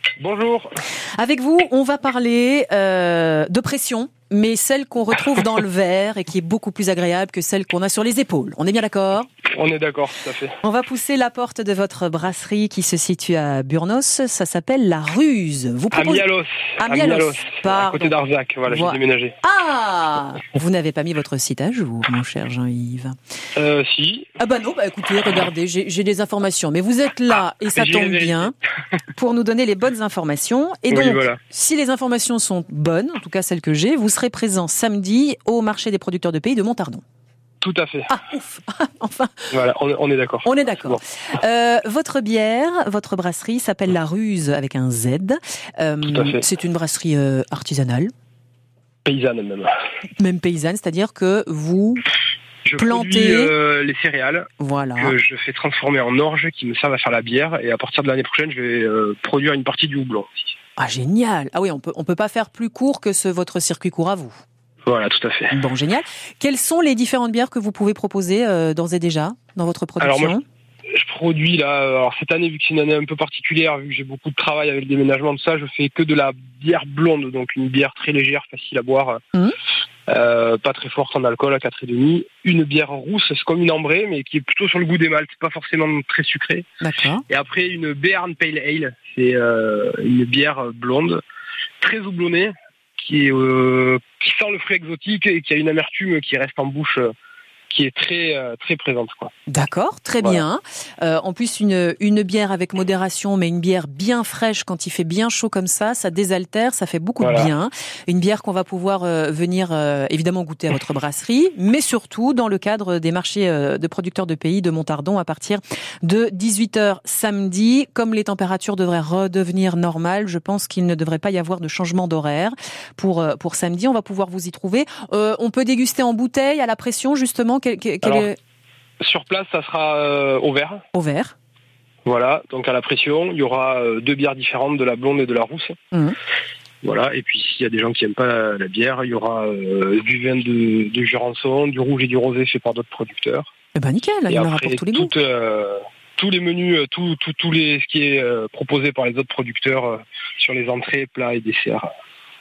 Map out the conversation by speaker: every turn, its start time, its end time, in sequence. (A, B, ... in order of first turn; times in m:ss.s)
0:00.2-0:00.8 A
0:01.2-0:09.3 B
0:09.4-0:10.6 A
0:10.6-0:16.2 B
0:15.9-0:19.4 A
0:16.8-0:18.1 B
0:18.7-0:23.2 B
0:23.6-0:24.3 A
0:24.4-0:28.5 B
0:27.7-0:28.5 A
0:29.1-0:37.0 B
0:30.9-0:31.4 A
0:37.6-0:38.1 A
0:38.1-0:39.5 B
0:39.5-0:41.0 A
0:40.4-0:48.1 B
0:46.1-0:46.4 A
0:49.0-0:49.7 A
0:50.2-0:52.0 B
0:52.6-0:54.5 A
0:52.8-0:53.5 B
0:54.6-0:55.2 B
0:55.0-1:00.5 A
1:00.8-1:04.4 B
1:04.9-1:05.6 A
1:05.5-1:10.4 B
1:10.0-1:10.4 A
1:10.9-1:19.2 A
1:20.1-1:26.7 A
1:26.8-1:27.2 B
1:27.3-1:31.2 A
1:31.8-1:37.1 A
1:37.7-1:39.3 A
1:39.5-2:08.4 B
1:47.2-1:47.5 A
2:08.0-2:08.3 A
2:09.0-2:10.8 A
2:10.9-2:11.3 B
2:12.0-2:15.8 A
2:15.9-2:16.2 B
2:16.8-2:23.5 A
2:23.8-2:25.1 B
2:24.3-2:31.9 A